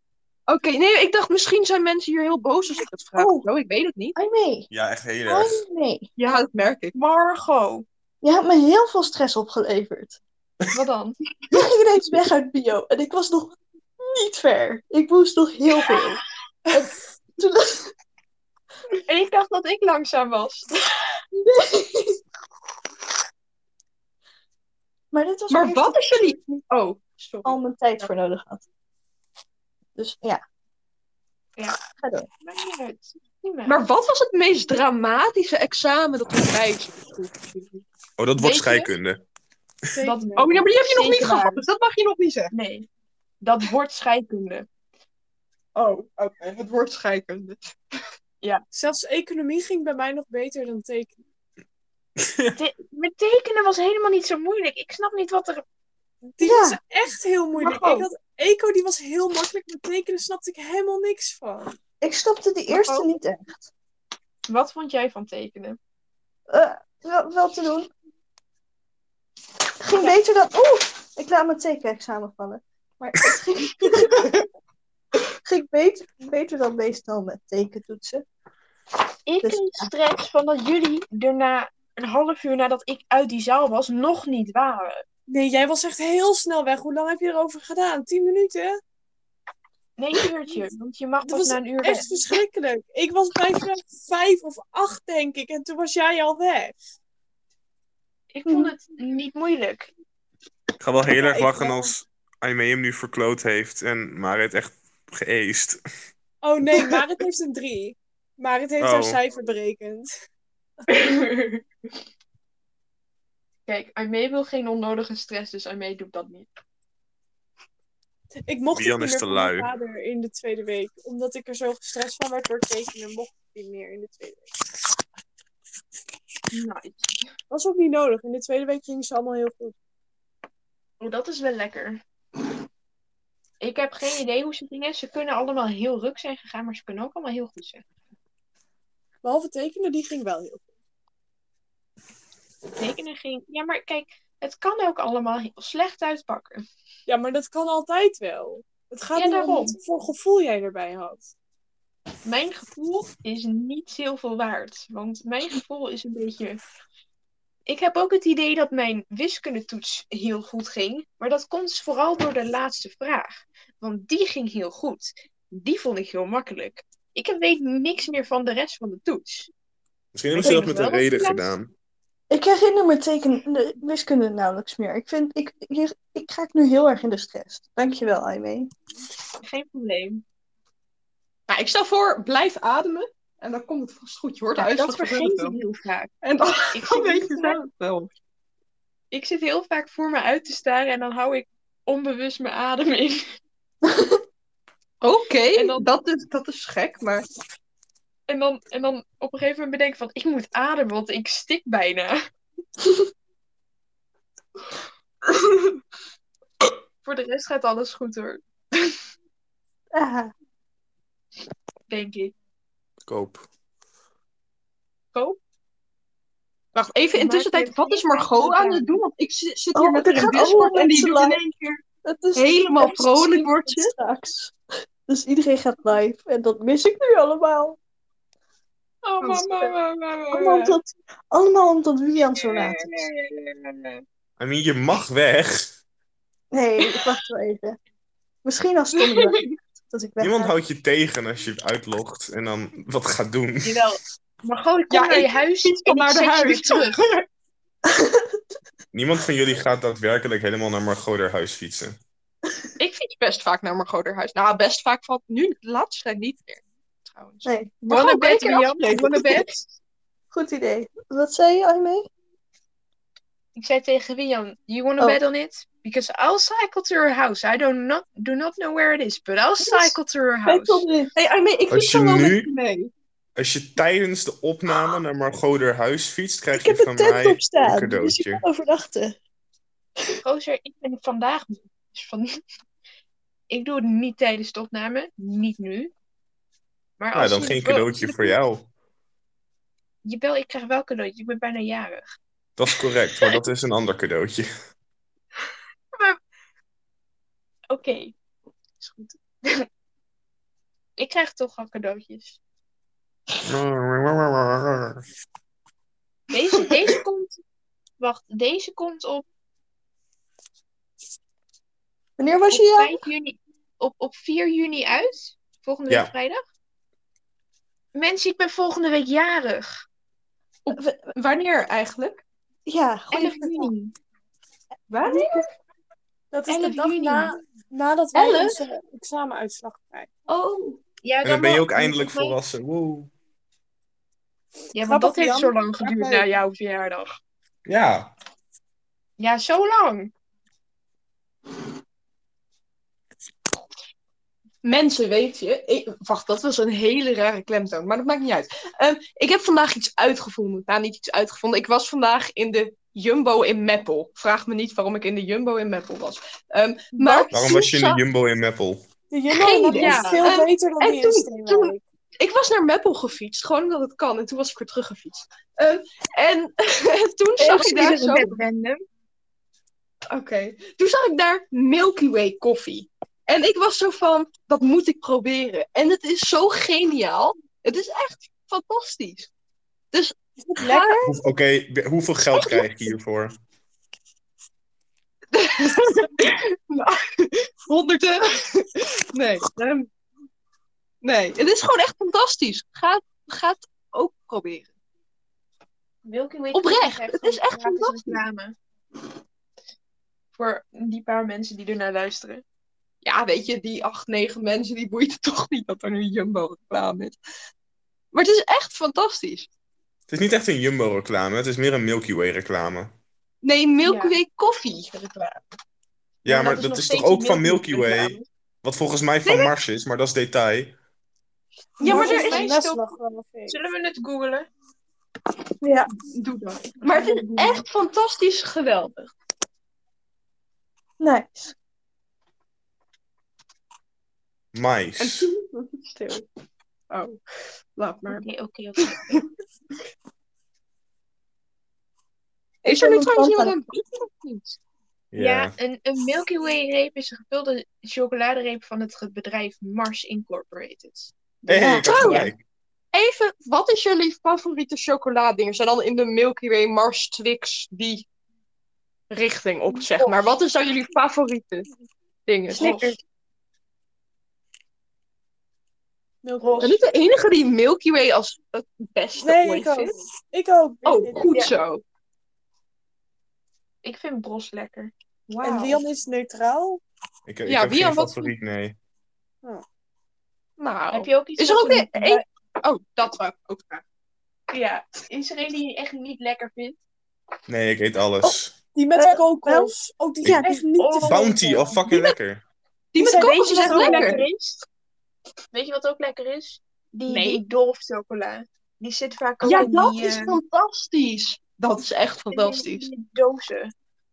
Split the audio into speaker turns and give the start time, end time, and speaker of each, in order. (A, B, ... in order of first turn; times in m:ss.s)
0:00.5-0:04.2 A
0:03.2-0:03.5 B
0:04.2-0:04.7 B
0:04.7-0:05.6 C
0:05.2-0:06.1 B
0:06.2-0:06.9 A
0:06.9-0:07.8 D
0:08.2-0:10.2 B
0:10.7-0:11.2 D
0:11.5-0:16.2 B
0:17.4-0:17.9 B
0:19.1-0:20.7 D
0:21.3-0:22.2 B
0:25.1-0:26.2 B
0:25.5-0:28.0 A
0:27.4-0:28.6 B
0:30.0-0:30.4 B
0:31.9-0:32.3 B
0:32.4-0:33.8 D
0:33.7-0:37.8 A
0:38.2-0:39.2 C
0:38.4-0:38.9 D
0:39.9-0:40.3 E
0:40.0-0:41.6 D
0:40.4-0:42.5 A
0:42.5-0:42.9 D
0:43.4-0:44.7 D
0:45.7-0:47.7 A
0:48.7-0:51.1 E
0:52.2-0:52.6 C
0:52.6-0:55.6 D
0:56.3-1:01.7 E
0:56.4-0:56.8 B
0:57.6-0:58.1 D
1:02.0-1:03.7 B
1:02.7-1:03.1 D
1:04.5-1:05.8 D
1:06.5-1:07.9 B
1:09.8-1:14.3 B
1:15.4-1:18.2 B
1:19.2-1:25.0 D
1:19.4-1:19.9 B
1:25.3-1:28.8 E
1:30.0-1:32.1 D
1:31.2-1:36.8 E
1:38.3-1:39.9 D
1:38.5-1:38.7 B
1:40.8-1:45.8 C
1:41.3-1:41.7 E
1:46.4-1:50.1 E
1:48.8-1:49.2 C
1:50.9-1:51.6 D
1:53.7-1:56.5 D
1:58.4-2:04.5 E
1:58.7-1:59.7 C
2:06.5-2:07.2 D
2:07.5-2:09.7 E
2:11.0-2:12.0 D
2:13.6-2:17.8 D
2:19.2-2:20.6 E
2:22.8-2:26.6 D
2:27.1-2:31.3 E
2:29.1-2:29.8 D
2:32.2-2:36.6 D
2:37.6-2:49.5 D
2:50.1-2:51.7 C
2:50.4-2:51.5 D
2:52.3-2:58.7 B
2:59.4-3:00.2 D
3:01.5-3:05.6 A
3:04.6-3:07.6 D
3:06.2-3:08.1 A
3:09.1-3:13.3 D
3:15.0-3:17.2 A
3:15.5-3:15.9 D
3:18.3-3:22.2 D
3:25.3-3:25.7 D
3:27.0-3:29.0 D
3:29.9-3:30.3 B
3:31.9-3:32.3 D
3:33.1-3:33.4 C
3:35.1-3:35.4 D
3:36.7-3:41.8 A
3:37.1-3:39.0 D
3:39.7-3:41.4 B
3:42.0-3:44.5 B
3:42.3-3:43.9 A
3:45.0-3:47.8 B
3:49.0-3:50.8 D
3:49.2-3:49.5 A
3:50.3-3:53.1 B
3:52.6-3:54.0 D
3:54.4-3:55.7 C
3:56.5-3:57.8 B
3:58.4-4:00.5 B
3:59.0-3:59.4 A
4:00.2-4:03.8 C
4:03.6-4:07.0 D
4:04.9-4:07.2 A
4:07.9-4:08.4 B
4:08.9-4:12.0 C
4:12.8-4:19.5 A
4:17.4-4:17.7 B
4:17.8-4:19.7 D
4:20.3-4:22.1 B
4:23.6-4:30.8 D
4:29.6-4:29.9 B
4:30.4-4:31.1 B
4:31.1-4:32.9 A
4:31.7-4:32.5 C
4:33.4-4:38.4 C
4:36.5-4:39.2 B
4:40.2-4:42.3 D
4:43.5-4:45.9 D
4:47.0-4:48.4 D
4:47.1-4:48.7 C
4:50.0-4:52.0 D
4:52.6-4:54.5 C
4:55.9-4:56.2 D
4:57.7-4:58.1 D
4:58.8-4:59.6 D
5:01.0-5:02.4 D
5:03.4-5:05.0 C
5:06.3-5:07.4 D
5:08.0-5:09.2 D
5:12.2-5:13.0 B
5:12.5-5:16.4 D
5:17.9-5:19.8 D
5:20.6-5:22.2 A
5:20.7-5:21.1 B
5:22.6-5:23.7 B
5:23.1-5:23.9 D
5:24.9-5:25.3 D
5:25.0-5:25.4 A
5:26.3-5:30.1 E
5:26.5-5:27.3 D
5:28.1-5:28.6 A
5:30.3-5:30.8 A
5:31.0-5:32.4 D
5:31.2-5:33.1 C
5:34.7-5:37.1 D
5:34.8-5:36.3 E
5:37.6-5:38.1 C
5:39.2-5:40.1 D
5:44.6-5:58.0 A
5:56.9-5:57.3 D
5:57.3-5:58.8 C
5:59.1-6:01.8 E
5:59.3-6:08.4 A
5:59.7-6:00.3 D
6:07.4-6:08.8 D
6:10.1-6:19.3 A
6:19.9-6:21.1 A
6:20.4-6:21.1 E
6:21.0-6:23.3 C
6:22.4-6:22.6 A
6:25.3-6:29.9 A
6:31.0-6:34.7 A
6:36.0-6:38.6 D
6:36.5-6:38.2 A
6:40.3-6:42.4 D
6:43.0-6:47.2 A
6:48.1-6:49.5 A
6:50.1-6:52.9 C
6:53.4-6:55.4 A
6:53.8-6:54.2 D
6:56.2-6:58.3 D
6:56.2-7:00.8 C
6:59.2-6:59.5 A
7:01.8-7:02.5 A
7:01.8-7:02.9 D
7:01.8-7:03.6 E
7:03.5-7:04.5 D
7:05.6-7:05.9 B
7:06.1-7:09.1 A
7:06.8-7:07.6 D
7:11.0-7:11.5 B
7:14.5-7:15.3 C
7:15.0-7:16.2 A
7:16.9-7:17.2 A
7:17.8-7:18.2 A
7:18.1-7:19.2 D
7:22.6-7:23.5 B
7:22.6-7:24.6 A
7:25.1-7:25.5 C
7:25.2-7:32.2 D
7:31.5-7:32.4 C
7:31.5-7:32.2 B
7:31.8-7:32.3 A
7:32.9-7:38.0 A
7:39.1-7:41.7 A
7:42.3-7:43.0 A
7:42.5-7:43.0 D
7:46.2-7:46.7 E
7:46.4-7:46.8 D
7:46.6-7:50.0 A
7:49.2-7:51.5 E
7:50.8-7:51.8 A
7:53.8-7:55.8 D
7:55.4-7:56.8 E
7:57.3-7:58.8 C
7:57.5-7:58.3 A
8:00.6-8:03.8 A
8:00.9-8:02.2 D
8:04.5-8:06.8 D
8:07.5-8:08.5 C
8:08.7-8:11.5 E
8:09.4-8:10.7 B
8:10.8-8:11.9 D
8:11.0-8:12.4 C
8:12.9-8:14.2 A
8:13.0-8:14.3 E
8:13.0-8:14.6 D
8:15.5-8:20.4 D
8:17.1-8:17.4 A
8:19.4-8:22.9 A
8:22.3-8:23.7 D